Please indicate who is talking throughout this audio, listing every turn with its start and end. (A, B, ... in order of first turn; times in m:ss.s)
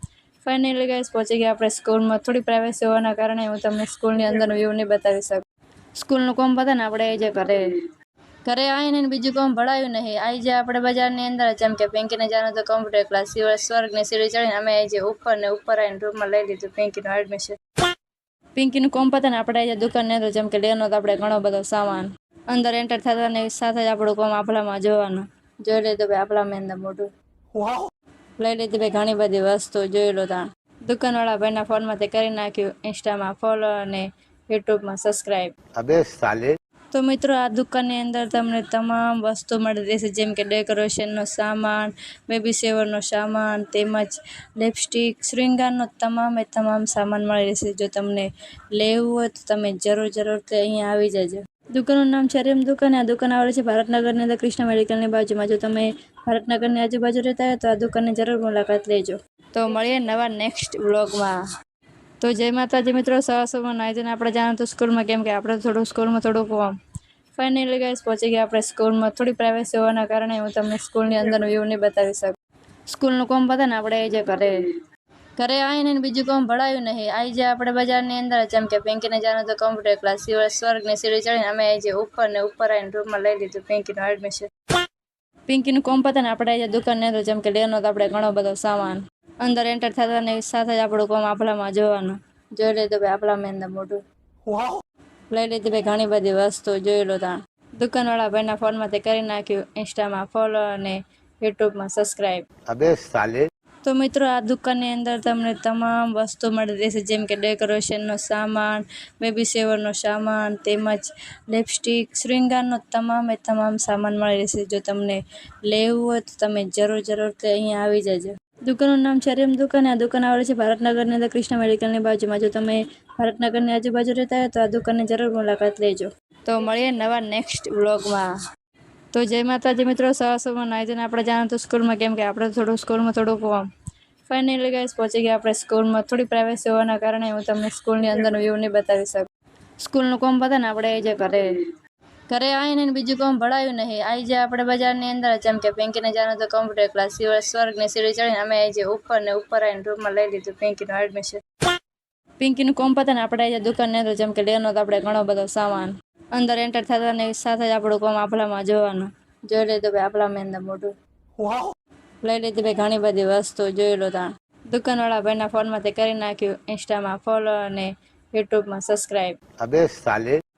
0:00.4-0:05.4 A
0:06.0-0:07.6 A
0:08.5-0:17.6 A
0:18.6-0:27.1 A
0:27.6-0:27.8 B
0:28.4-0:35.5 A
0:35.8-0:36.5 B
0:36.9-1:01.4 A
1:02.2-1:06.7 A
1:07.4-1:12.4 A
1:12.9-1:14.5 A
1:15.4-1:24.5 A
1:25.5-1:34.0 A
1:34.5-1:34.8 B
1:35.3-1:42.4 A
1:42.7-1:43.4 B
1:43.8-2:08.3 A
2:09.1-2:13.7 A
2:14.3-2:19.3 A
2:19.8-2:21.4 A
2:22.3-2:31.4 A
2:32.4-2:40.9 A
2:41.4-2:41.7 B
2:42.2-2:49.4 A
2:49.6-2:50.4 B